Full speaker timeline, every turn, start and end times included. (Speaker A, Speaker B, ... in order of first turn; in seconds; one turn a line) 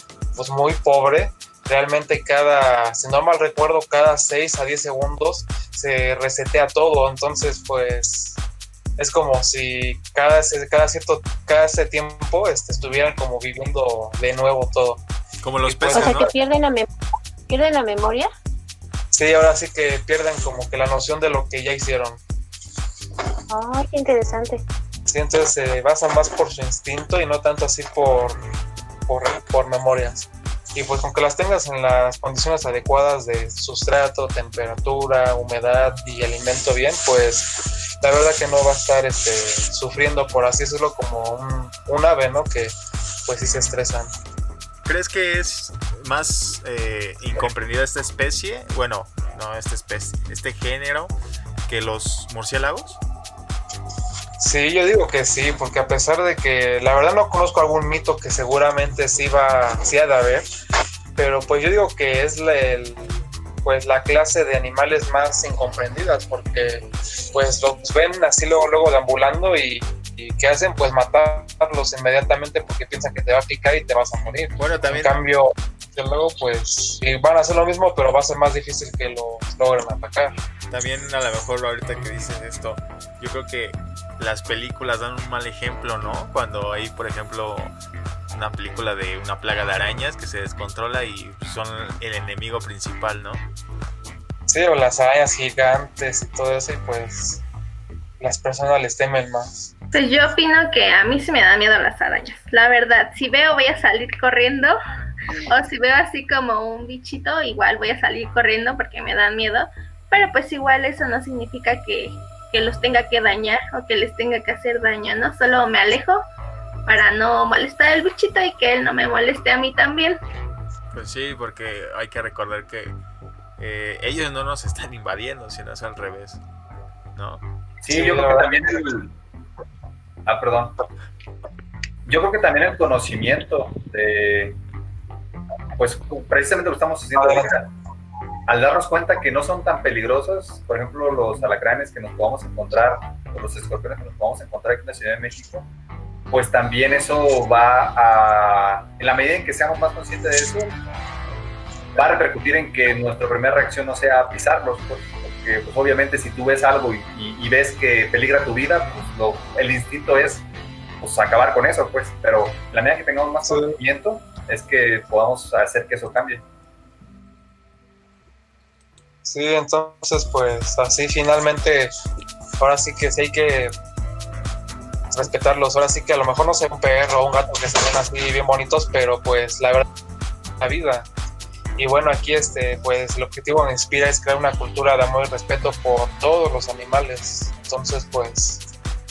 Speaker A: 0.4-8.4
Speaker A: 9.0-15.0
Speaker B: 15.4-16.3
Speaker A: 15.7-16.3
Speaker C: 15.9-16.9
Speaker C: 17.5-18.3
Speaker A: 19.1-22.2
Speaker C: 23.5-24.6
Speaker A: 25.1-28.4
Speaker A: 29.1-42.7
Speaker A: 43.3-44.1
Speaker B: 44.9-51.1
Speaker B: 51.7-53.0
Speaker A: 54.4-60.5
Speaker A: 61.2-80.3
Speaker B: 74.6-75.2
Speaker B: 80.7-87.7
Speaker B: 88.3-93.4
Speaker A: 94.5-97.4
Speaker A: 98.2-99.7
Speaker D: 99.9-104.8
Speaker D: 105.5-116.2
Speaker D: 116.9-120.2
Speaker B: 120.9-123.0
Speaker B: 123.6-126.4
Speaker B: 127.2-127.4
Speaker E: 127.8-129.1
Speaker A: 127.9-128.5
Speaker E: 130.3-130.8
Speaker E: 132.1-134.6
Speaker E: 135.8-137.7
Speaker A: 137.2-137.5
Speaker E: 138.5-145.7
Speaker E: 146.3-150.7
Speaker E: 151.9-160.4
Speaker E: 161.0-166.4
Speaker A: 163.5-163.8
Speaker A: 169.2-171.9
Speaker A: 172.6-173.7
Speaker A: 175.1-179.8
Speaker A: 180.6-181.1
Speaker A: 181.8-188.7